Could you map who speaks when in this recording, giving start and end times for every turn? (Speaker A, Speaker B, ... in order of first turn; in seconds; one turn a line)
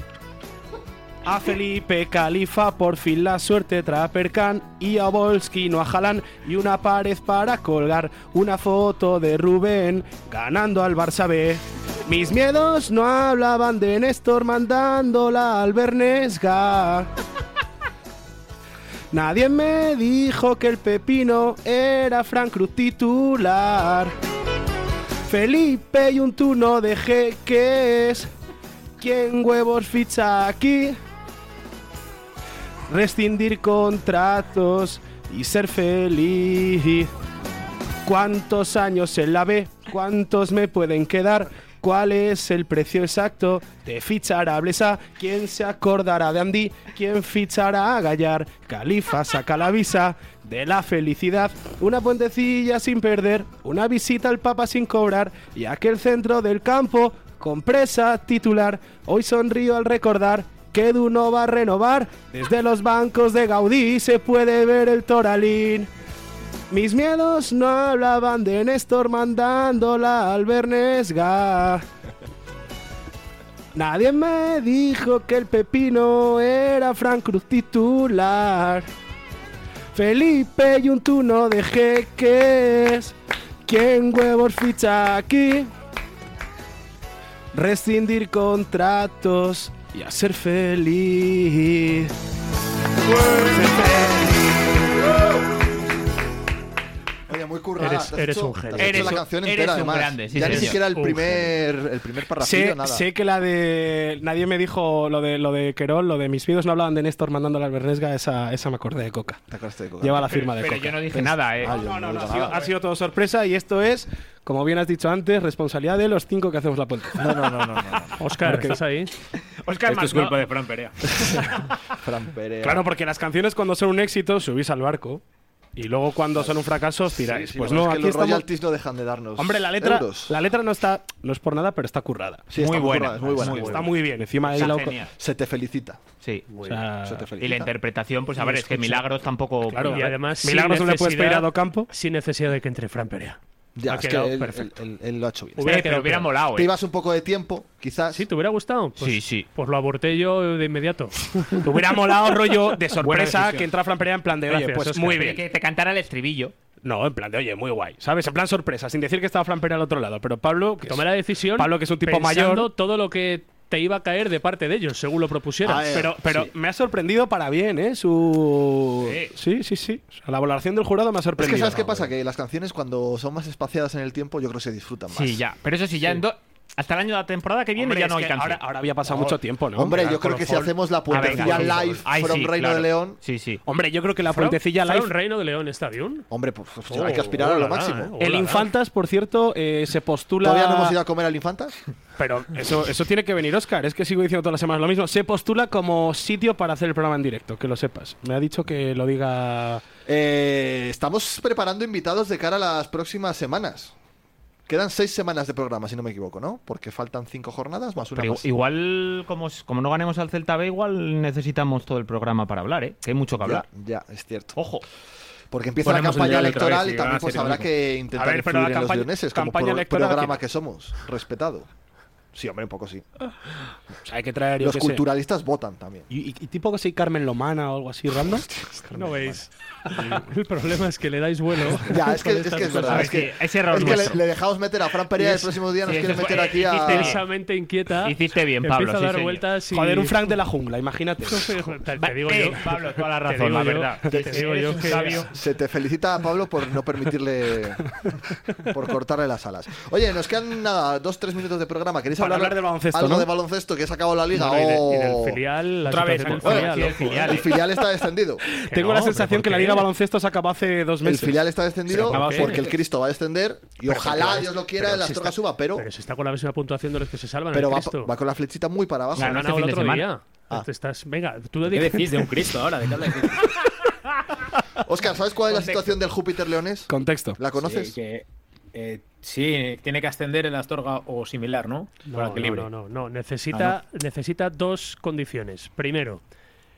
Speaker A: 1.2-17.1
Speaker A: 19.1-24.1
Speaker A: 25.3-28.3
Speaker A: 29.0-31.0
Speaker A: 32.9-37.1
Speaker A: 38.0-65.9
Speaker A: 66.7-71.8
Speaker A: 73.8-78.9
Speaker A: 79.9-83.2
Speaker A: 83.7-85.7
Speaker A: 87.5-92.1
Speaker A: 93.6-94.1
Speaker B: 97.3-103.1
Speaker C: 97.8-99.2
Speaker D: 98.8-100.8
Speaker C: 100.4-101.5
Speaker A: 102.4-109.4
Speaker B: 109.5-110.5
Speaker A: 110.0-117.5
Speaker D: 110.3-111.7
Speaker B: 111.6-112.7
Speaker B: 117.2-118.2
Speaker C: 118.2-119.1
Speaker A: 118.5-118.8
Speaker D: 119.6-120.4
Speaker E: 119.9-121.0
Speaker B: 122.0-122.9
Speaker A: 122.6-125.2
Speaker A: 125.8-128.5
Speaker B: 126.4-130.3
Speaker A: 129.4-132.5
Speaker B: 132.5-133.9
Speaker D: 132.6-133.7
Speaker E: 132.6-133.8
Speaker A: 133.4-135.0
Speaker D: 134.5-135.1
Speaker B: 134.6-136.0
Speaker C: 136.5-136.8
Speaker A: 136.6-137.3
Speaker B: 137.1-137.7
Speaker D: 137.4-140.1
Speaker A: 138.4-139.0
Speaker A: 139.7-141.9
Speaker C: 139.8-144.7
Speaker B: 143.8-146.0
Speaker C: 145.6-146.3
Speaker D: 145.6-146.7
Speaker B: 146.5-148.2
Speaker C: 148.1-151.7
Speaker D: 149.0-149.5
Speaker A: 151.6-155.4
Speaker E: 153.0-153.7
Speaker C: 154.5-155.2
Speaker D: 155.1-156.5
Speaker A: 156.8-162.7
Speaker C: 160.8-165.8
Speaker B: 165.6-166.5
Speaker A: 165.8-172.1
Speaker D: 169.0-169.3
Speaker B: 171.3-175.4
Speaker D: 175.1-179.4
Speaker A: 177.8-180.3
Speaker B: 179.8-183.2
Speaker C: 180.0-182.0
Speaker D: 181.1-183.6
Speaker A: 181.3-181.7
Speaker A: 183.7-185.1
Speaker C: 184.3-186.3
Speaker B: 186.3-188.1
Speaker C: 186.9-188.7
Speaker A: 188.2-191.0
Speaker B: 190.4-191.8
Speaker A: 192.2-199.8
Speaker B: 200.1-203.9
Speaker B: 204.7-208.4
Speaker D: 208.1-213.7
Speaker B: 213.4-214.6
Speaker D: 214.6-214.8
Speaker B: 215.5-221.7
Speaker E: 215.8-217.7
Speaker A: 218.1-220.4
Speaker B: 222.3-223.1
Speaker A: 224.1-225.1
Speaker B: 224.6-226.1
Speaker A: 226.1-229.4
Speaker C: 228.9-233.2
Speaker A: 230.0-230.2
Speaker B: 231.8-237.2
Speaker D: 232.7-234.2
Speaker D: 235.2-237.2
Speaker C: 236.7-240.3
Speaker D: 238.0-239.5
Speaker A: 239.7-241.6
Speaker C: 241.2-245.3
Speaker D: 242.0-245.3
Speaker B: 244.1-248.0
Speaker B: 248.6-255.4
Speaker A: 252.2-253.3
Speaker C: 254.3-257.4
Speaker E: 255.9-257.1
Speaker B: 256.3-258.5
Speaker D: 256.6-257.6
Speaker A: 258.5-261.4
Speaker D: 258.7-259.6
Speaker B: 261.0-265.9
Speaker E: 261.9-262.8
Speaker C: 261.9-262.6
Speaker A: 263.9-265.1
Speaker C: 265.8-268.1
Speaker B: 267.5-269.4
Speaker E: 269.2-270.0
Speaker D: 269.2-270.1
Speaker C: 269.2-272.2
Speaker E: 271.7-273.6
Speaker B: 274.8-277.9
Speaker A: 276.9-277.4
Speaker E: 277.5-282.7
Speaker C: 282.1-286.2
Speaker E: 283.5-283.8